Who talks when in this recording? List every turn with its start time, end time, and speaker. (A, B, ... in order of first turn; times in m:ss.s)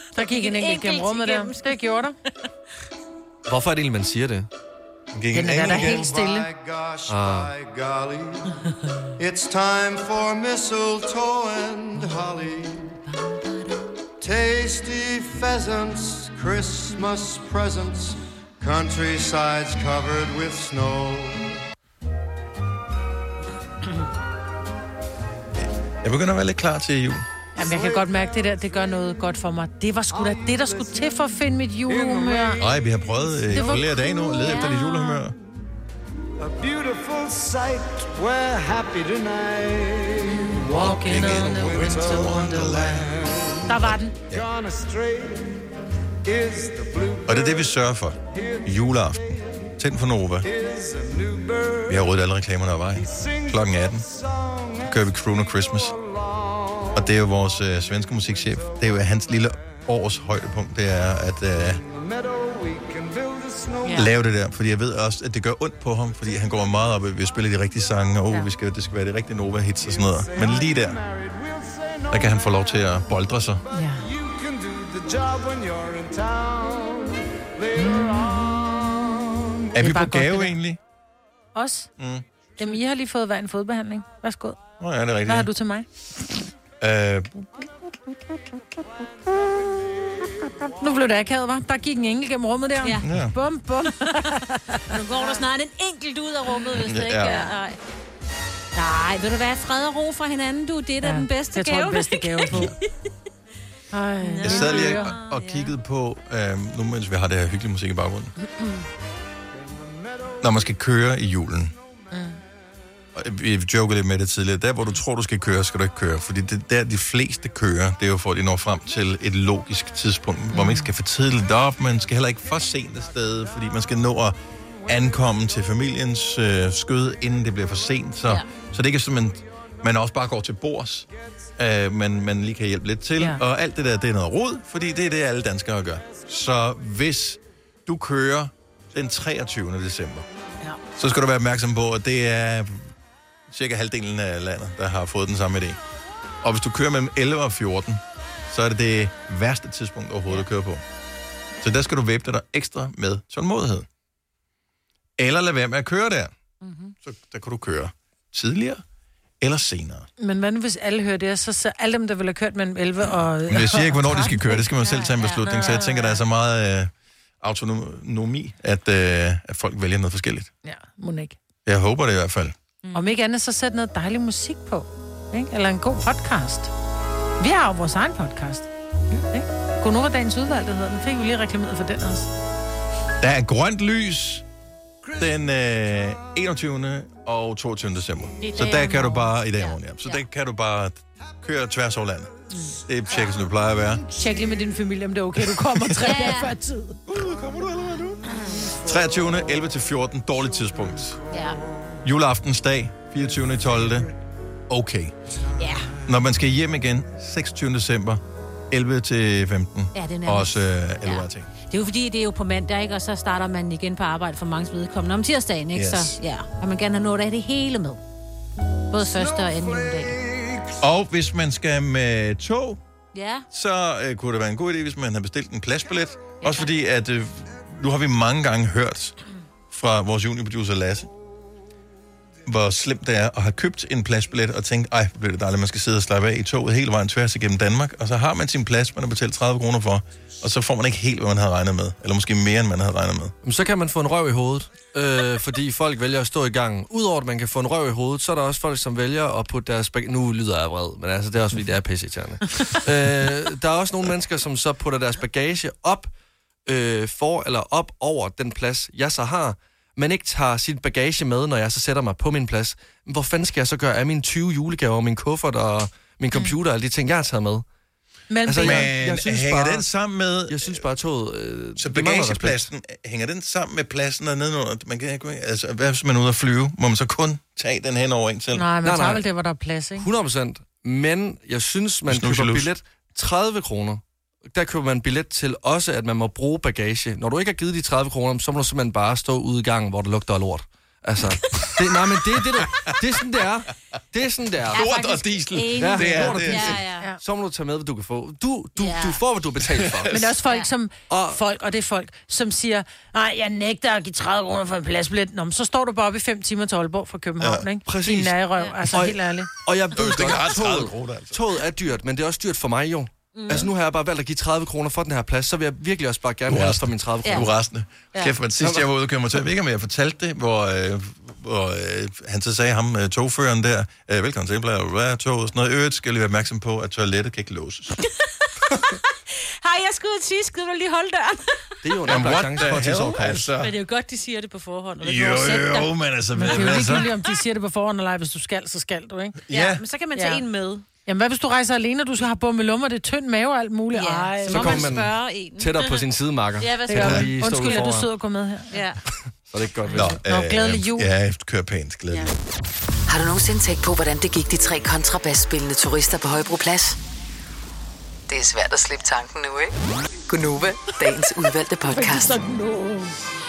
0:00.2-0:01.8 A
0:00.2-0:02.2 B
0:03.4-0:04.5 C
0:05.1-0:06.1 D
0:05.3-0:06.5 B
0:05.5-0:08.5 E
0:07.1-0:07.5 C
0:09.2-0:12.9 E
0:14.2-0:21.6 E
0:25.6-0:27.2 D
0:27.6-0:32.8 B
0:27.6-0:28.6 E
0:30.1-0:31.2 E
0:31.9-0:32.8 E
0:32.6-0:35.4 D
0:33.5-0:34.8 B
0:36.4-0:40.6 E
0:40.4-0:43.0 B
0:40.7-0:44.4 D
0:41.2-0:43.7 E
0:43.6-0:44.2 B
0:44.3-0:45.6 E
0:46.2-0:47.6 E
0:47.2-0:50.5 D
0:48.3-0:48.9 E
0:50.4-0:52.0 E
0:51.9-0:54.1 D
0:53.0-0:54.8 E
0:54.8-0:55.9 D
0:56.1-0:56.9 E
0:56.9-1:01.8 D
1:01.8-1:04.1 E
1:03.8-1:04.1 B
1:03.9-1:11.0 D
1:10.1-1:12.3 E
1:12.1-1:13.6 D
1:13.7-1:19.6 E
1:13.7-1:14.0 B
1:19.7-1:20.6 B
1:19.7-1:20.8 D
1:21.5-1:21.9 B
1:22.0-1:22.2 D
1:22.6-1:24.6 B
1:24.8-1:25.5 D
1:25.3-1:25.9 B
1:26.8-1:27.5 D
1:29.6-1:30.6 E
1:30.8-1:35.3 B
1:33.0-1:33.3 D
1:33.9-1:34.3 A
1:34.8-1:37.8 A
1:36.7-1:37.4 D
1:37.2-1:37.5 B
1:38.7-1:42.8 A
1:41.0-1:42.7 B
1:43.9-1:45.2 B
1:44.2-1:45.7 A
1:44.4-1:48.3 D
1:50.4-1:51.7 D
1:52.1-1:52.4 B
1:53.1-2:20.3 D
2:00.6-2:00.8 B
2:21.0-2:22.9 D
2:23.5-2:25.8 D
2:26.4-2:30.8 D
2:31.6-2:33.9 D
2:35.2-2:36.3 D
2:36.6-2:36.9 A
2:37.0-2:38.8 D
2:39.4-2:40.1 D
2:40.2-2:44.6 B
2:43.5-2:50.5 D
2:44.6-2:46.2 A
2:45.5-2:45.9 B
2:50.6-2:51.4 B
2:51.6-2:52.5 D
2:52.8-2:53.2 A
2:52.9-2:56.7 B
2:57.4-3:02.3 B
3:03.2-3:04.4 D
3:05.2-3:14.0 D
3:08.4-3:10.2 A
3:08.6-3:09.1 B
3:14.2-3:17.0 B
3:15.5-3:16.1 D
3:16.0-3:16.5 A
3:17.0-3:21.2 D
3:21.3-3:21.6 A
3:22.0-3:24.1 D
3:24.7-3:25.1 D
3:25.6-3:25.9 A
3:26.0-3:31.5 D
3:29.9-3:38.0 A
3:35.7-3:36.2 D
3:38.9-3:40.2 A
3:39.0-3:40.8 E
3:40.8-3:42.8 D
3:43.1-3:43.4 A
3:43.5-3:49.2 D
3:46.4-3:46.7 A
3:49.7-3:51.1 D
3:52.4-4:03.3 D
4:03.4-4:16.1 C
4:16.6-4:27.6 C
4:26.3-4:26.6 B
4:28.3-4:28.9 B
4:28.4-4:29.8 C
4:28.6-4:30.8 D
4:30.5-4:32.7 C
4:31.8-4:38.7 D
4:38.5-4:40.1 B
4:38.8-4:39.2 C
4:40.0-4:54.8 C
4:42.1-4:42.7 D
4:54.7-4:56.8 D
4:54.7-4:57.1 A
4:55.8-5:00.2 C
4:58.8-4:59.2 A
5:00.1-5:09.5 B
5:01.1-5:01.4 C
5:07.4-5:07.7 D
5:07.8-5:08.3 C
5:08.8-5:17.5 C
5:09.9-5:11.4 D
5:13.4-5:13.7 A
5:16.5-5:28.0 D
5:17.2-5:17.5 A
5:18.6-5:18.9 C
5:29.6-5:32.3 A
5:31.8-5:33.5 C
5:32.0-5:33.7 D
5:33.4-5:35.9 A
5:35.0-5:37.1 D
5:36.4-5:39.4 B
5:36.6-5:37.1 A
5:39.5-5:39.8 D
5:39.5-5:40.8 A
5:40.2-5:40.4 B
5:41.0-5:44.9 B
5:43.9-5:47.8 A
5:44.4-5:48.1 C
5:46.9-5:48.7 B
5:47.0-5:47.3 D
5:48.7-5:49.0 A
5:49.5-5:50.2 C
5:49.9-5:52.3 D
5:50.0-5:51.1 B
5:53.1-5:57.0 F
5:58.3-5:59.7 F
6:00.3-6:02.4 F
6:01.8-6:03.1 B